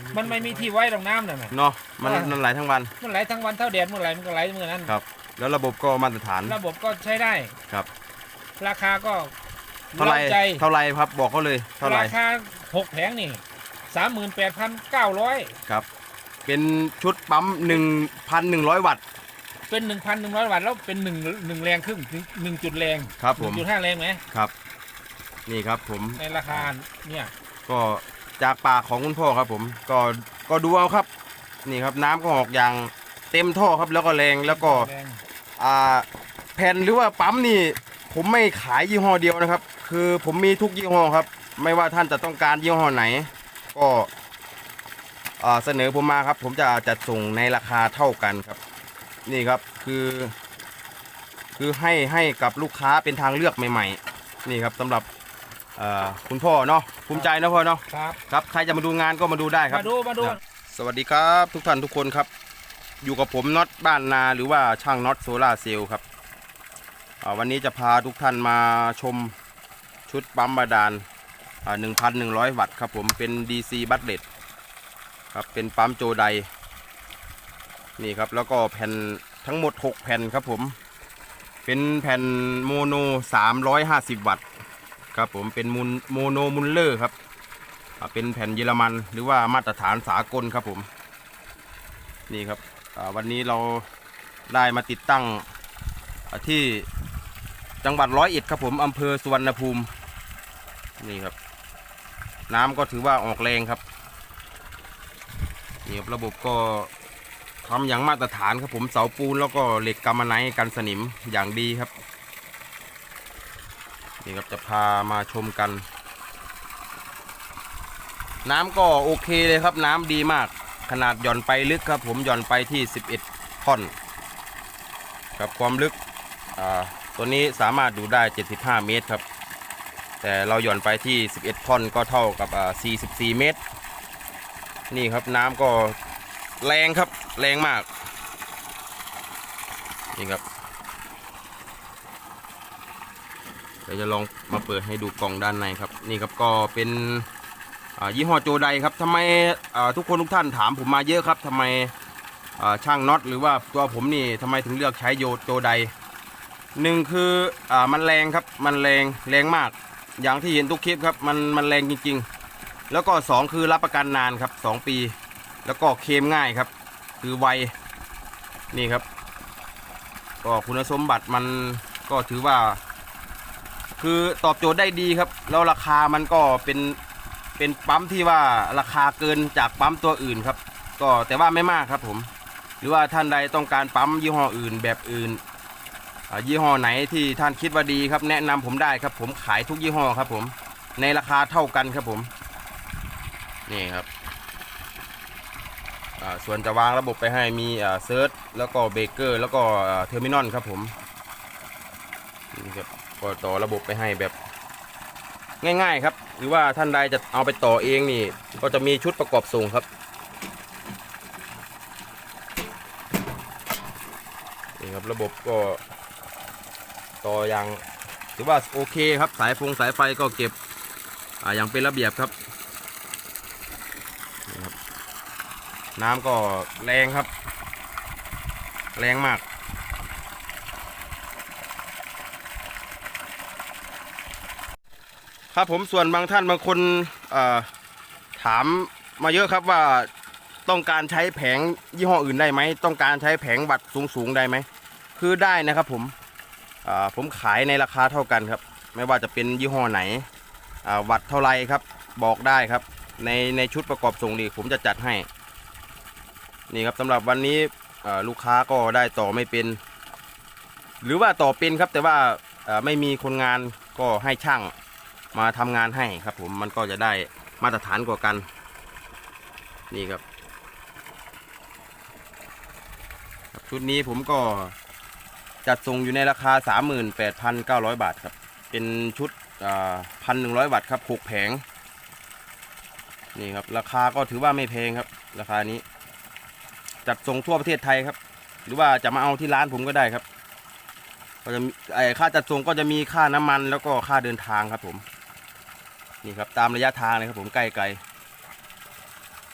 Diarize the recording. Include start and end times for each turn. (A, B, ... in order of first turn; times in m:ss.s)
0:00.1-0:02.4 A
0:01.5-0:02.9 B
0:03.0-0:04.9 A
0:04.8-0:06.6 B
0:06.4-0:07.6 A
0:08.6-0:09.3 A
0:09.9-0:10.6 A
0:10.0-0:12.1 B
0:11.8-0:15.6 A
0:16.4-0:19.0 B
0:19.7-0:24.2 A
0:23.2-0:23.6 B
0:25.5-0:26.7 B
0:26.2-0:27.3 A
0:27.7-0:31.1 B
0:31.6-0:34.9 B
0:34.5-0:35.2 A
0:35.6-0:44.1 B
0:45.4-0:48.6 B
0:49.3-0:50.3 B
0:51.6-0:55.1 B
0:55.8-1:02.3 B
0:57.9-0:58.2 A
0:59.7-1:00.4 A
1:03.0-1:06.0 B
1:07.2-1:09.3 B
1:10.1-1:11.0 B
1:11.6-1:14.2 B
1:15.3-1:16.5 B
1:18.0-1:20.8 B
1:21.7-1:24.4 B
1:25.1-1:27.1 B
1:28.0-1:30.9 B
1:32.3-1:33.8 B
1:34.5-1:35.4 B
1:36.3-1:36.9 B
1:37.8-1:39.9 B
1:41.0-1:41.3 B
1:42.5-1:43.8 B
1:45.8-1:46.9 B
1:47.6-1:51.9 B
1:54.2-1:55.8 B
1:58.4-2:03.9 B
2:05.4-2:06.0 B
2:06.6-2:09.2 B
2:10.2-2:13.6 B
2:14.9-2:16.0 B
2:16.6-2:17.9 B
2:20.1-2:20.4 B
2:23.9-2:27.3 B
2:28.0-2:31.9 B
2:32.6-2:35.9 B
2:36.8-2:42.3 B
2:42.9-2:46.7 B
2:47.2-2:47.7 B
2:48.7-2:49.0 B
2:50.4-2:52.8 B
2:54.0-2:57.0 B
2:57.6-3:02.3 B
3:02.8-3:05.4 B
3:06.3-3:12.3 B
3:13.7-3:14.1 B
3:16.2-3:20.9 B
3:22.5-3:24.3 B
3:25.6-3:29.8 B
3:34.8-3:35.8 B
3:37.2-3:37.8 B
3:38.4-3:40.5 B
3:41.4-3:42.3 B
3:44.5-3:44.7 B
3:46.0-3:47.3 B
3:49.0-3:49.4 B
3:55.5-3:57.7 B
3:58.4-4:00.1 B
4:00.7-4:06.1 B
4:06.8-4:10.3 B
4:10.8-4:15.3 B
4:16.7-4:19.8 B
4:21.0-4:24.7 B
4:25.3-4:28.4 B
4:29.9-4:30.2 B
4:33.5-4:34.7 B
4:35.6-4:41.6 B
4:43.3-4:45.8 B
4:47.1-4:50.2 B
4:51.4-4:55.0 B
4:56.2-4:58.0 B